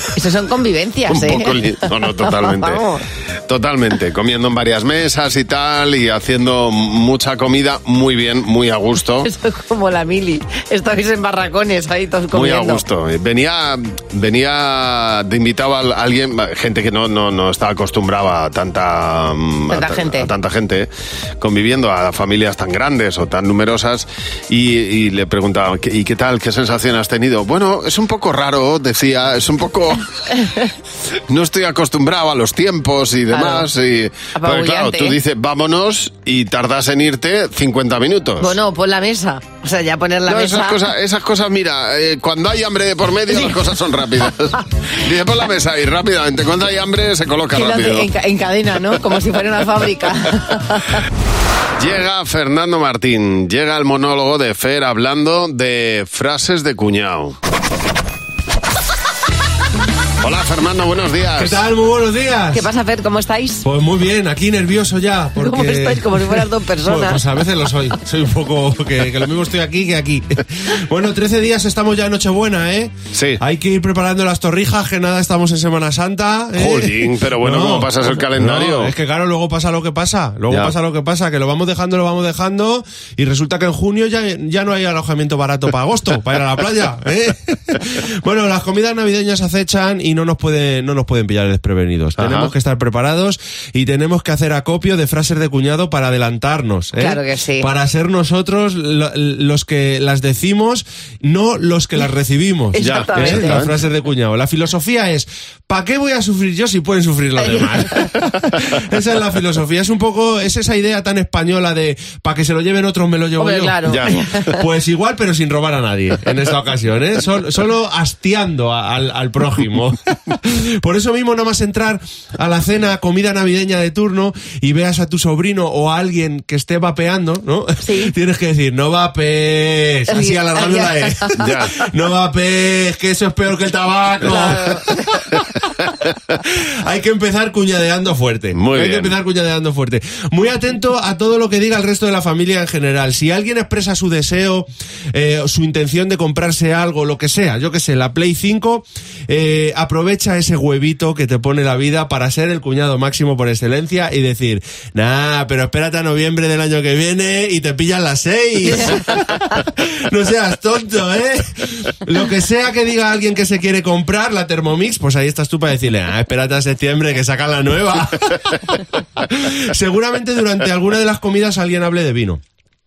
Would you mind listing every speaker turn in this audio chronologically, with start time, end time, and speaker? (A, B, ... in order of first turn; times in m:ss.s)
0:00.2-0:01.6 A
0:01.1-0:02.8 B
0:02.2-0:03.0 A
0:03.5-0:09.3 B
0:09.2-0:12.8 A
0:12.3-0:20.9 B
0:19.7-0:20.3 A
0:21.4-0:30.0 B
0:30.3-0:30.7 A
0:31.3-0:38.6 B
0:33.3-0:33.7 A
0:34.4-0:35.2 A
0:38.4-0:40.8 A
0:40.3-0:48.1 B
0:47.6-0:51.0 A
0:51.8-0:57.4 B
1:00.2-1:01.6 B
1:01.4-1:02.7 C
1:02.5-1:03.6 A
1:03.6-2:15.0 C
1:05.4-1:07.2 A
1:13.1-1:13.4 B
1:16.6-1:18.9 B
1:20.5-1:20.7 B
1:32.2-1:32.5 B
1:37.0-1:37.7 A
1:42.7-1:43.6 A
1:42.8-1:43.7 B
1:53.4-1:54.6 A
1:53.9-1:54.1 B
2:07.8-2:08.1 A
2:10.1-2:11.4 A
2:11.4-2:11.7 B
2:14.3-2:15.0 A
2:16.5-2:52.4 C
2:18.6-2:19.2 B
2:38.7-2:39.3 A